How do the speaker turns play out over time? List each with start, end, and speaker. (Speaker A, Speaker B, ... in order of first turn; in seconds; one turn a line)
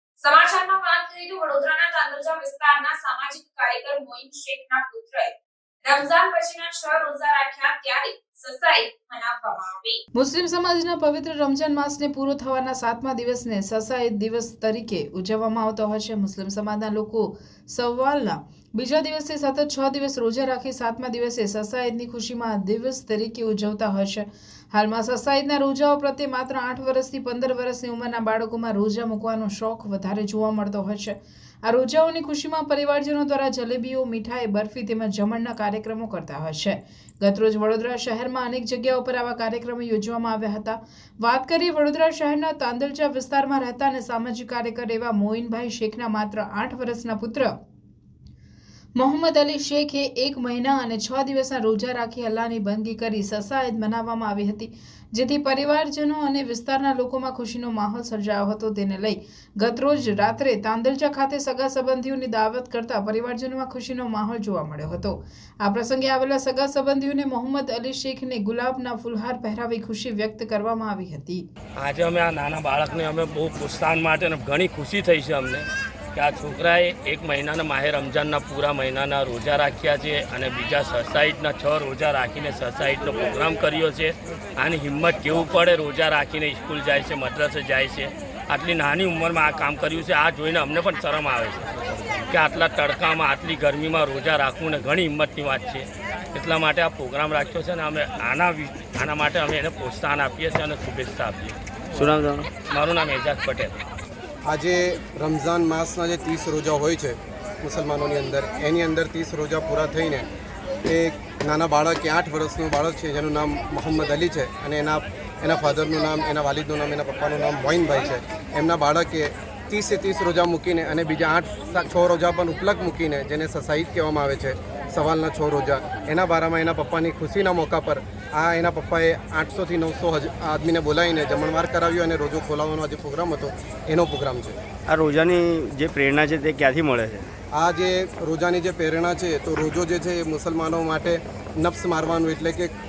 Speaker A: 0.2-10.0
Speaker B: 10.2-47.5
Speaker B: 49.0-71.5
Speaker C: 71.8-101.6
Speaker D: 102.0-102.5
Speaker C: 102.6-103.8
Speaker E: 104.5-110.3
Speaker E: 110.9-134.6
Speaker D: 134.9-137.3
Speaker E: 137.5-142.7